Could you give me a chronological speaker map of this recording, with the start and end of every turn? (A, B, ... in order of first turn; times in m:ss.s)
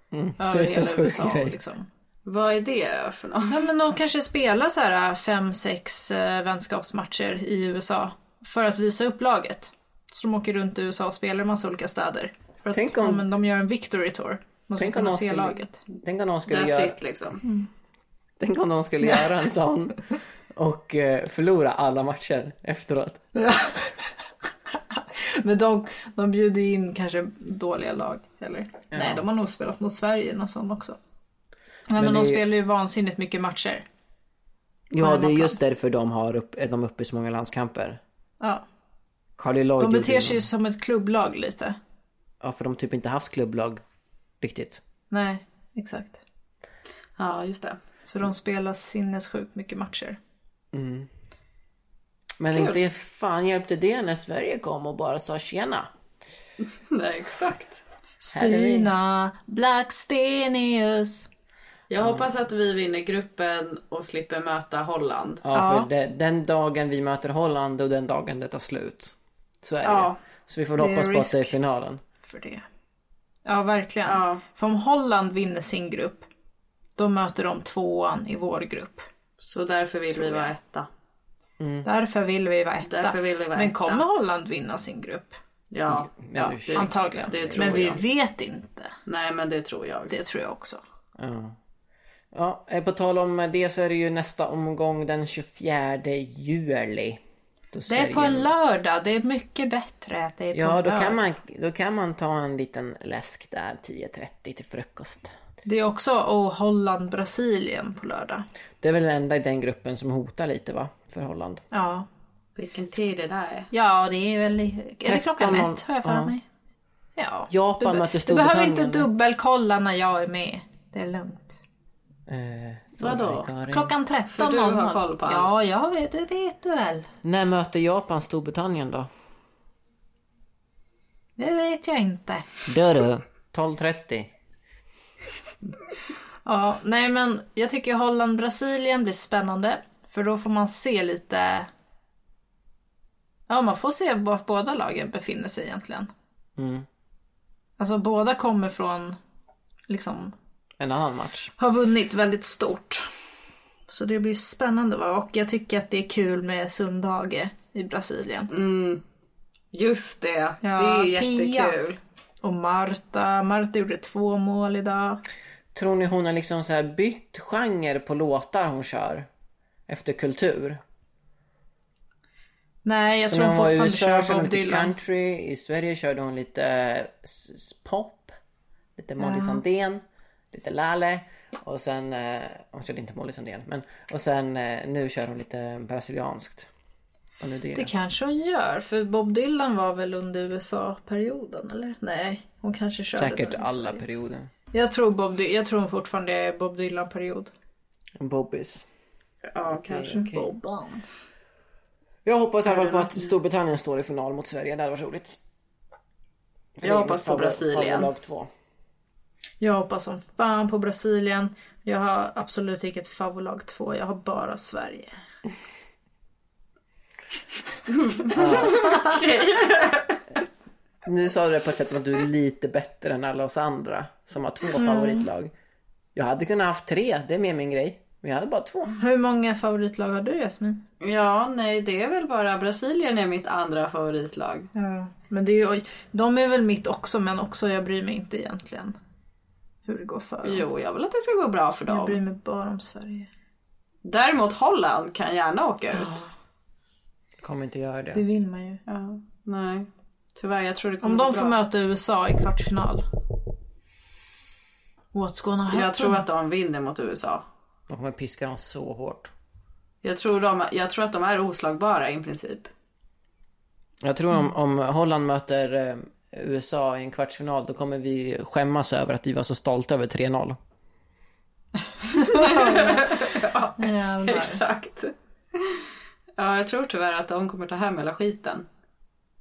0:00.1-0:01.6 A
0:00.4-0:01.9 B
0:02.3-0:03.6 C
0:03.5-0:15.8 B
0:12.7-0:13.2 A
0:14.8-0:17.0 A
0:16.5-0:17.4 C
0:17.4-0:17.7 B
0:18.4-0:23.2 A
0:23.4-0:24.0 B
0:24.9-0:31.0 B
0:28.9-0:29.2 A
0:31.9-0:33.8 B
0:32.0-0:32.5 A
0:34.9-0:38.0 A
0:35.0-0:35.6 B
0:39.4-0:40.4 A
0:39.8-0:41.8 B
0:42.4-0:43.8 A
0:44.4-0:44.8 A
0:45.1-0:46.2 B
0:47.2-0:47.8 C
0:48.1-0:50.2 B
0:50.7-0:51.1 A
0:52.4-0:55.9 A
0:56.9-0:57.8 C
0:58.2-1:01.3 B
0:58.3-0:58.9 A
1:01.9-1:05.4 C
1:02.0-1:02.3 A
1:05.4-1:12.0 A
1:05.5-1:05.9 B
1:09.8-1:10.2 C
1:10.8-1:11.6 B
1:12.2-1:12.6 B
1:13.5-1:16.3 B
1:14.1-1:14.4 C
1:17.0-1:19.1 B
1:19.4-1:20.9 C
1:20.1-1:20.5 B
1:21.6-1:21.9 A
1:21.8-1:25.4 B
1:22.8-1:24.0 C
1:25.7-1:28.0 C
1:25.9-1:28.0 A
1:26.4-1:28.9 B
1:29.1-1:30.2 C
1:30.1-1:30.8 B
1:31.2-1:31.6 A
1:32.3-1:37.2 A
1:37.7-1:38.5 A
1:37.9-1:41.2 B
1:40.5-1:45.3 A
1:45.6-1:48.4 B
1:48.8-1:51.6 A
1:51.7-1:52.1 B
1:52.6-1:53.7 C
1:53.7-1:56.4 B
1:55.0-1:56.3 A
1:57.2-2:01.6 B
1:57.5-1:59.1 A
2:02.3-2:03.9 A
2:03.0-2:03.5 C
2:03.7-2:07.1 B
2:04.3-2:05.6 C
2:07.2-2:09.1 A
2:11.4-2:12.5 B
2:12.7-2:14.3 A
2:16.5-2:21.7 B
2:23.5-2:26.1 B
2:26.6-2:26.9 A
2:27.8-2:29.2 B
2:29.9-2:30.4 B
2:30.8-2:31.5 A
2:31.6-2:33.1 B
2:33.9-2:38.5 B
2:38.5-2:39.0 C
2:39.7-2:42.0 C
2:40.6-2:41.8 B
2:42.4-2:45.2 B
2:45.7-2:49.3 A
2:49.9-2:50.8 A
2:52.8-2:54.9 B
2:53.2-2:58.3 A
2:59.0-3:06.7 A
2:59.2-2:59.6 B
3:07.4-3:07.9 A
3:07.8-3:14.1 B
3:13.1-3:14.5 A
3:14.7-3:17.5 B
3:18.2-3:18.9 A
3:19.5-3:20.3 C
3:19.7-3:20.5 A
3:20.1-3:21.0 B
3:22.2-3:25.4 A
3:22.7-3:23.3 C
3:26.8-3:28.5 A
3:26.8-3:28.1 C
3:29.6-3:35.1 B
3:38.0-3:40.2 C
3:38.3-3:38.9 A
3:38.3-3:39.3 B
3:41.0-3:45.5 A
3:44.8-3:45.3 B
3:46.2-3:49.0 A
3:49.0-3:50.8 B
3:51.0-3:54.7 C
3:54.8-3:59.0 B
3:59.9-4:00.6 B
4:00.4-4:02.2 C
4:01.9-4:03.3 B
4:04.0-4:06.2 C
4:05.9-4:06.3 B
4:07.4-4:08.2 A
4:08.1-4:08.8 B
4:08.9-4:11.6 C
4:11.0-4:13.1 B
4:15.1-4:16.2 B
4:15.7-4:17.4 C
4:17.9-4:19.3 A
4:20.0-4:22.7 C
4:24.0-4:30.6 A
4:32.1-4:34.6 B
4:32.3-4:35.8 C
4:36.4-4:38.7 C